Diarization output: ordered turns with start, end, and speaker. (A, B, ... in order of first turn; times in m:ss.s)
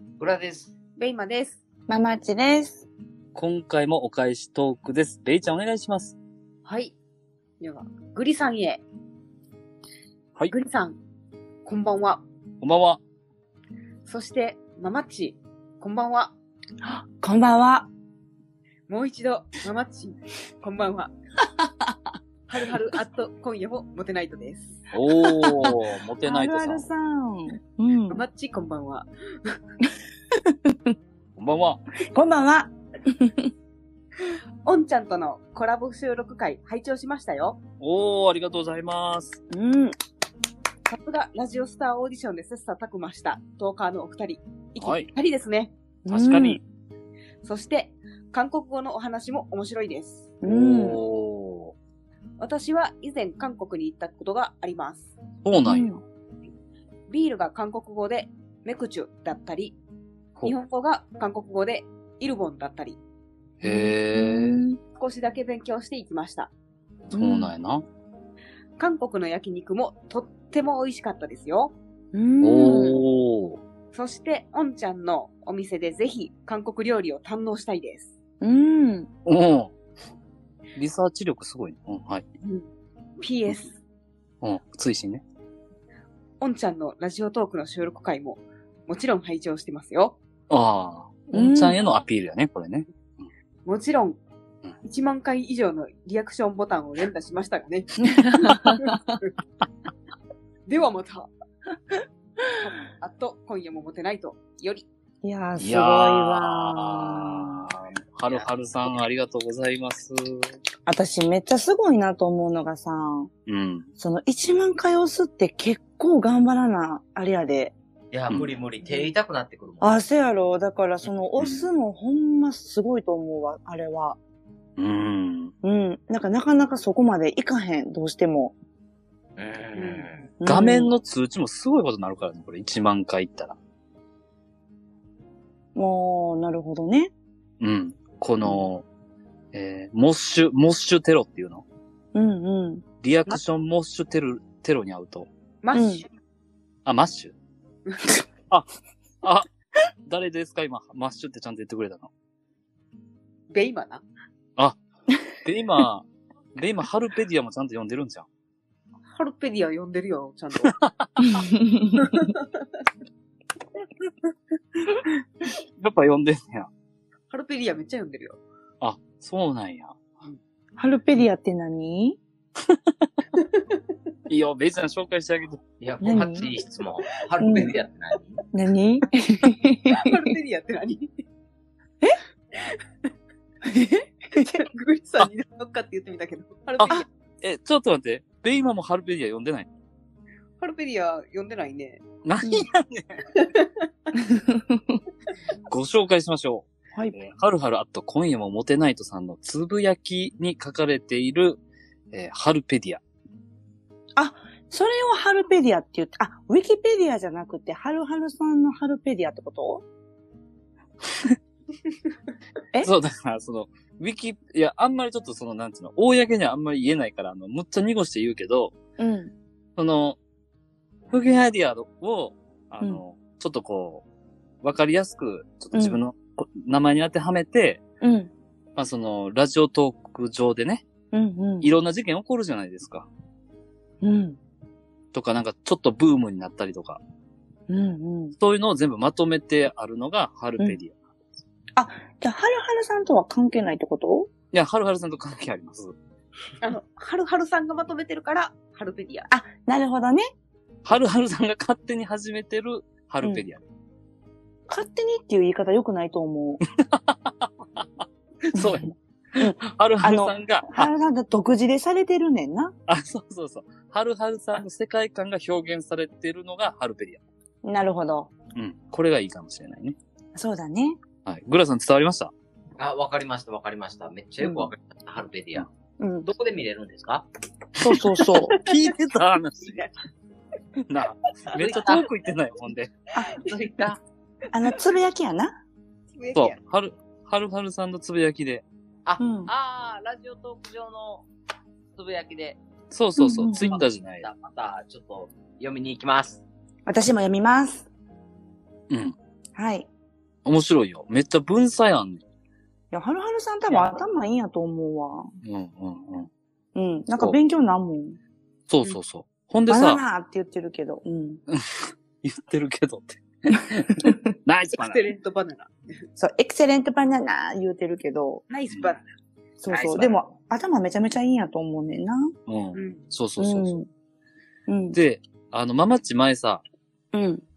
0:00.2-0:00.7 A
0:01.0-0:01.6 B
0:01.9-0:02.9 C
0:03.3-0:06.2 D
0:06.6-0:06.9 B
0:07.6-0:08.8 B
0:10.5-0:11.0 B
0:11.6-0:12.2 B
0:12.6-0:13.0 D
0:14.0-0:16.3 B
0:16.8-0:17.9 C
0:18.9-0:21.1 B
0:21.6-0:21.9 C
0:22.5-0:24.8 B
0:24.9-0:26.9 D
0:25.1-0:28.2 C
0:28.1-0:29.5 B
0:30.4-0:30.9 C
0:31.4-0:31.8 D
0:32.1-0:33.5 C
0:34.6-0:37.6 B
0:37.8-0:39.4 D
0:39.5-0:39.9 C
0:40.9-0:45.7 B
0:44.8-0:45.1 D
0:46.0-0:46.6 C
0:46.1-0:46.6 D
0:47.4-0:50.3 B
0:50.4-0:51.0 C
0:50.4-0:51.7 D
0:52.4-0:55.1 B
0:55.4-0:55.9 D
0:55.6-0:56.0 C
0:57.1-0:59.8 B
1:00.4-1:03.0 B
1:03.6-1:04.6 D
1:03.6-1:04.8 C
1:05.0-1:06.5 B
1:07.1-1:07.5 C
1:07.1-1:07.8 D
1:08.8-1:11.7 B
1:12.1-1:13.0 C
1:12.4-1:13.6 D
1:13.9-1:18.1 B
1:18.4-1:19.1 C
1:19.2-1:19.7 D
1:20.8-1:22.2 D
1:23.2-1:23.8 B
1:24.4-1:25.2 D
1:26.4-1:30.2 B
1:30.5-1:33.2 D
1:31.3-1:31.8 C
1:33.6-1:34.2 B
1:34.8-1:39.0 B
1:38.0-1:39.2 C
1:40.7-1:41.3 B
1:42.6-1:44.9 B
1:45.2-1:47.6 C
1:45.6-1:50.4 D
1:50.9-1:53.3 C
1:53.5-1:53.9 D
1:54.0-1:57.7 C
1:58.1-2:00.0 A
1:59.8-2:04.2 C
2:01.4-2:01.6 D
2:04.8-2:05.5 D
2:05.6-2:08.6 C
2:09.4-2:10.3 A
2:09.7-2:10.1 B
2:10.4-2:10.9 C
2:10.4-2:13.6 D
2:15.7-2:17.1 C
2:17.6-2:18.8 D
2:19.5-2:21.6 D
2:22.1-2:22.8 C
2:23.0-2:25.3 D
2:25.6-2:26.1 B
2:25.7-2:26.0 C
2:26.8-2:27.3 D
2:27.9-2:28.2 B
2:30.1-2:32.1 D
2:33.5-2:34.0 B
2:35.4-2:38.3 D
2:39.1-2:40.7 B
2:40.7-2:41.3 D
2:41.5-2:41.9 C
2:42.0-2:42.5 B
2:44.8-2:46.7 D
2:47.3-2:48.4 B
2:48.8-2:50.0 D
2:50.8-2:52.2 C
2:52.7-2:53.1 D
2:53.4-2:53.6 B
2:54.3-2:55.6 D
2:55.8-2:58.4 A
2:56.0-2:56.4 C
2:57.4-2:57.7 B
2:57.4-2:57.8 C
2:58.5-3:00.2 C
2:59.9-3:01.1 B
3:03.6-3:04.6 C
3:04.4-3:07.0 B
3:06.8-3:09.7 D
3:10.6-3:12.0 B
3:12.2-3:13.2 D
3:13.4-3:13.7 B
3:14.2-3:15.0 C
3:15.7-3:21.6 D
3:22.1-3:23.0 D
3:24.2-3:29.8 C
3:32.8-3:38.7 D
3:39.0-3:39.3 C
3:39.8-3:40.2 D
3:41.1-3:44.0 D
3:44.6-3:47.8 D
3:45.7-3:46.0 C
3:48.0-3:48.3 C
3:48.8-3:50.8 D
3:51.1-3:51.7 C
3:51.6-3:53.1 D
3:54.0-3:54.4 C
3:55.1-3:57.0 D
3:57.7-3:58.4 C
3:58.4-4:00.9 D
4:01.8-4:04.3 C
4:04.5-4:05.9 D
4:06.6-4:09.3 B
4:09.3-4:10.2 C
4:10.8-4:13.6 D
4:14.7-4:16.6 C
4:16.8-4:20.9 D
4:19.4-4:22.7 C
4:22.9-4:27.2 D
4:27.6-4:28.3 C
4:28.6-4:30.0 D
4:30.3-4:31.0 C
4:31.2-4:32.3 D
4:32.8-4:35.7 A
4:36.0-4:36.3 C
4:36.2-4:37.3 A
4:37.8-4:38.6 C
4:38.5-4:39.9 D
4:40.9-4:42.9 D
4:41.6-4:42.0 A
4:43.4-4:44.0 A
4:44.5-4:45.5 C
4:46.1-4:46.6 B
4:46.3-4:48.6 D
4:49.0-4:51.3 A
4:49.2-4:49.5 C
4:51.9-4:52.6 A
4:52.9-4:54.3 D
4:53.2-4:53.8 C
4:53.5-4:56.4 A
4:56.9-4:57.9 C
4:58.9-4:59.2 D
4:59.6-4:59.9 C
5:00.4-5:02.2 D
5:02.9-5:05.3 C
5:03.7-5:03.9 D
5:05.4-5:06.3 D
5:06.7-5:08.2 C
5:08.7-5:10.0 D
5:09.7-5:11.4 C
5:11.5-5:15.0 D
5:14.7-5:15.7 B
5:16.2-5:18.4 C
5:18.5-5:19.0 B
5:18.7-5:19.0 D
5:19.6-5:22.3 C
5:19.7-5:20.1 B
5:22.5-5:23.8 D
5:22.7-5:23.0 B
5:23.4-5:23.9 C
5:24.7-5:25.0 C
5:24.9-5:26.6 D
5:27.1-5:27.4 C